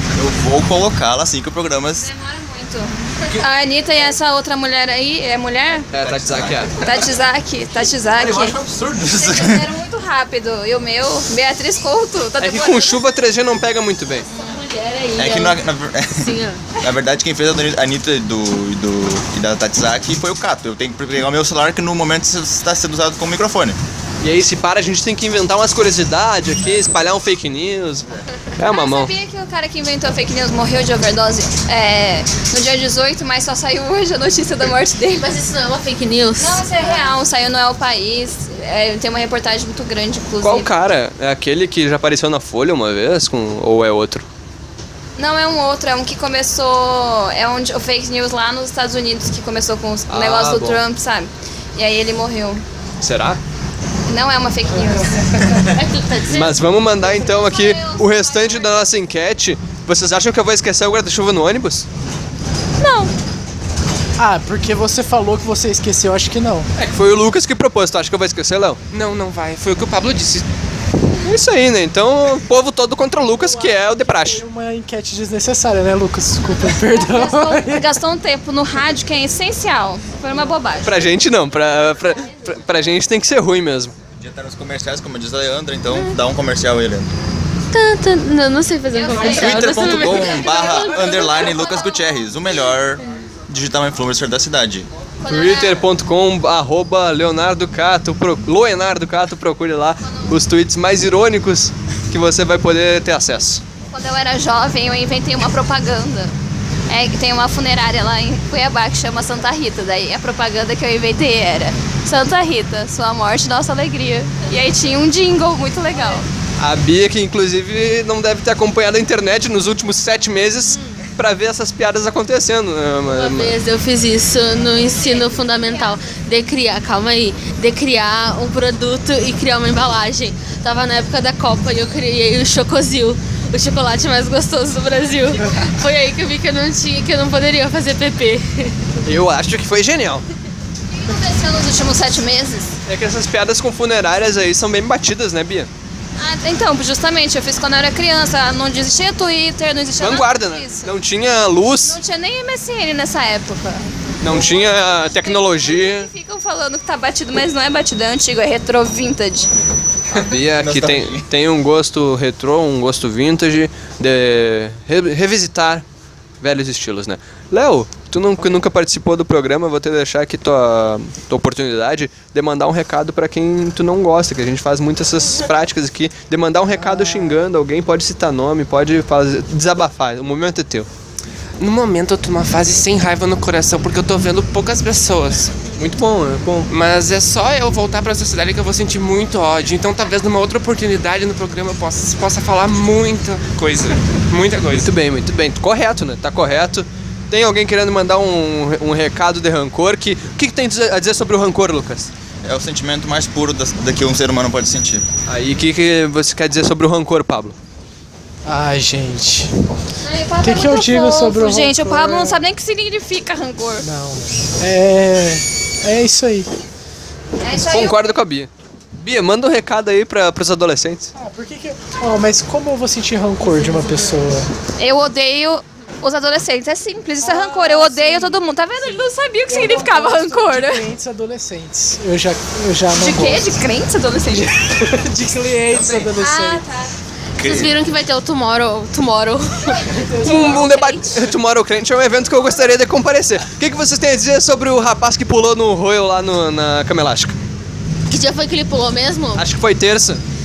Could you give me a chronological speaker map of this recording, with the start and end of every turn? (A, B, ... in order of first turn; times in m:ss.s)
0:00.1-0:02.1 A
0:02.0-0:05.9 B
0:05.9-0:06.7 C
0:06.0-0:07.0 A
0:06.8-0:08.6 B
0:08.0-0:09.7 A
0:09.1-0:13.0 B
0:12.4-0:14.3 C
0:14.3-0:15.6 D
0:15.2-0:23.8 A
0:16.2-0:16.6 D
0:24.2-0:28.1 C
0:28.6-0:29.1 C
0:28.6-0:35.3 B
0:35.1-0:37.1 D
0:36.4-0:40.7 B
0:40.4-0:44.3 C
0:45.2-0:52.6 B
0:50.1-0:50.8 C
0:53.0-0:53.4 C
0:54.0-0:55.3 B
0:55.5-0:56.6 D
0:56.3-1:01.9 C
0:57.0-0:58.9 B
1:02.8-1:03.1 B
1:04.2-1:06.7 E
1:06.8-1:08.8 C
1:08.9-1:10.4 F
1:11.2-1:14.4 C
1:13.2-1:17.9 E
1:16.7-1:21.0 B
1:20.8-1:23.9 C
1:24.2-1:27.1 A
1:25.9-1:26.1 D
1:27.7-1:31.6 D
1:28.9-1:32.1 B
1:29.1-1:34.9 A
1:35.2-1:35.9 B
1:35.2-1:43.6 C
1:40.0-1:40.4 B
1:43.9-1:46.3 B
1:46.9-1:56.3 B
1:56.6-2:03.6 C
2:00.6-2:01.0 D
2:03.0-2:18.9 D
2:04.9-2:06.0 B
2:19.0-2:20.2 C
2:20.9-2:22.8 B
2:22.9-2:25.7 C
2:26.2-2:30.9 B
2:30.0-2:32.0 C
2:31.7-2:39.5 B
2:34.2-2:36.1 C
2:40.1-2:41.3 A
2:40.1-2:45.8 C
2:46.4-3:00.9 C
3:01.6-3:05.5 F
3:05.7-3:06.7 C
3:06.7-3:14.9 F
3:14.8-3:22.1 C
3:22.4-3:25.0 A
3:25.3-3:27.6 C
3:28.4-3:29.5 E
3:30.0-3:33.8 B
3:30.4-3:32.4 E
3:33.8-3:36.5 E
3:37.4-3:38.2 B
3:37.6-3:41.1 C
3:41.2-3:44.5 E
3:44.8-3:50.8 B
3:47.2-3:48.4 E
3:49.5-3:53.6 E
3:52.9-3:54.6 B
3:54.4-3:56.6 E
3:56.2-3:56.9 B
3:57.4-3:59.9 D
3:57.4-3:57.7 A
3:59.9-4:00.8 E
4:00.2-4:07.4 C
4:00.2-4:01.2 B
4:08.1-4:09.4 D
4:09.4-4:10.2 C